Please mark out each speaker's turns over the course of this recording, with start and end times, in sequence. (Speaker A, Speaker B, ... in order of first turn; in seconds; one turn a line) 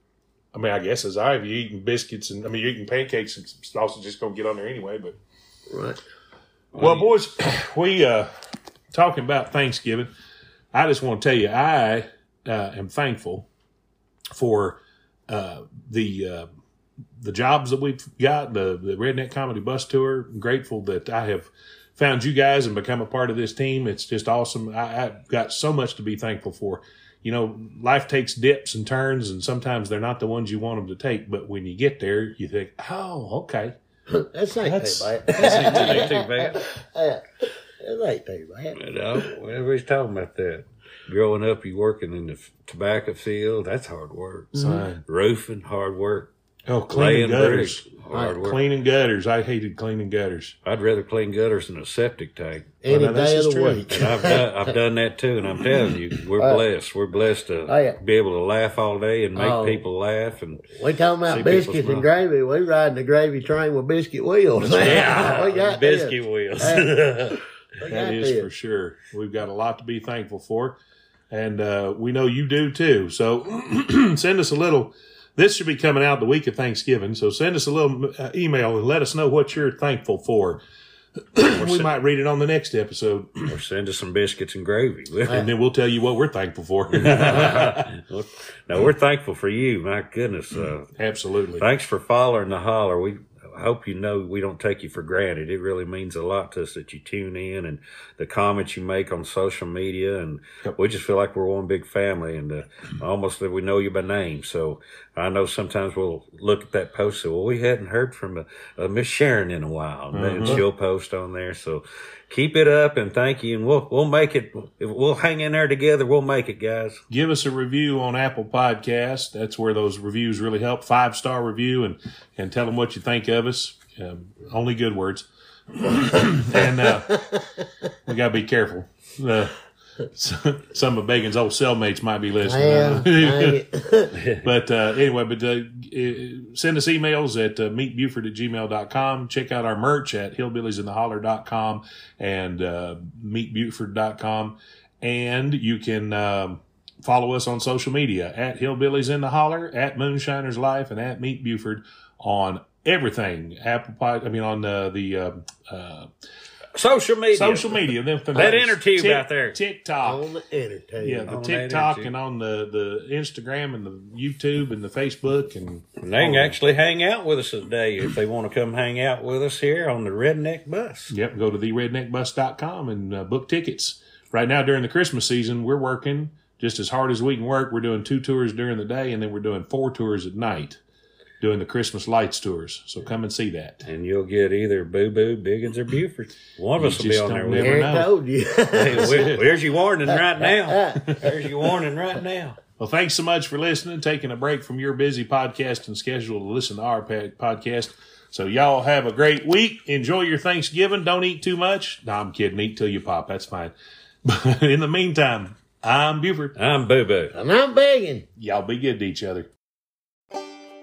Speaker A: 0.5-5.2
Speaker B: 5.7-6.0
Speaker C: 6.7-7.1
Speaker A: 6.8-8.3
Speaker A: 8.9-10.1
Speaker A: 10.7-13.4
Speaker A: 14.3-16.5
Speaker A: 17.2-33.7
Speaker B: 34.1-37.2
Speaker A: 34.6-36.2
Speaker C: 35.4-36.6
Speaker B: 37.8-38.8
Speaker C: 38.7-46.3
Speaker B: 44.5-44.8
Speaker A: 44.5-45.0
Speaker A: 46.7-50.6
Speaker C: 46.9-48.6
Speaker B: 48.1-48.4
Speaker C: 50.6-52.8
Speaker B: 52.8-54.8
Speaker A: 52.9-54.0
Speaker C: 53.9-60.7
Speaker B: 56.4-56.6
Speaker B: 57.7-58.0
Speaker B: 59.3-59.8
Speaker B: 60.7-68.5
Speaker A: 61.3-62.1
Speaker C: 64.6-67.4
Speaker A: 64.7-65.1
Speaker A: 67.9-70.8
Speaker A: 71.3-80.6
Speaker A: 81.3-83.5
Speaker C: 81.6-81.8
Speaker C: 83.5-85.5
Speaker A: 85.3-87.9
Speaker C: 86.9-90.9
Speaker A: 91.0-91.6
Speaker C: 91.6-117.0
Speaker A: 110.1-110.6
Speaker A: 117.1-127.4
Speaker B: 127.0-127.4
Speaker A: 128.0-129.6
Speaker A: 130.1-133.6
Speaker B: 132.4-134.2
Speaker C: 134.1-134.5
Speaker A: 134.2-156.1
Speaker C: 156.7-159.6
Speaker A: 157.3-160.3
Speaker B: 160.0-161.3
Speaker A: 161.0-166.6
Speaker C: 161.2-162.1
Speaker C: 166.0-171.1
Speaker A: 171.1-180.8
Speaker A: 181.4-183.9
Speaker C: 183.8-187.9
Speaker A: 186.8-188.1
Speaker B: 187.5-189.3
Speaker C: 188.7-192.6
Speaker A: 188.9-189.4
Speaker B: 190.1-191.1
Speaker A: 192.8-203.7
Speaker A: 204.2-206.5
Speaker C: 206.5-207.3
Speaker B: 207.3-208.2
Speaker A: 208.4-209.5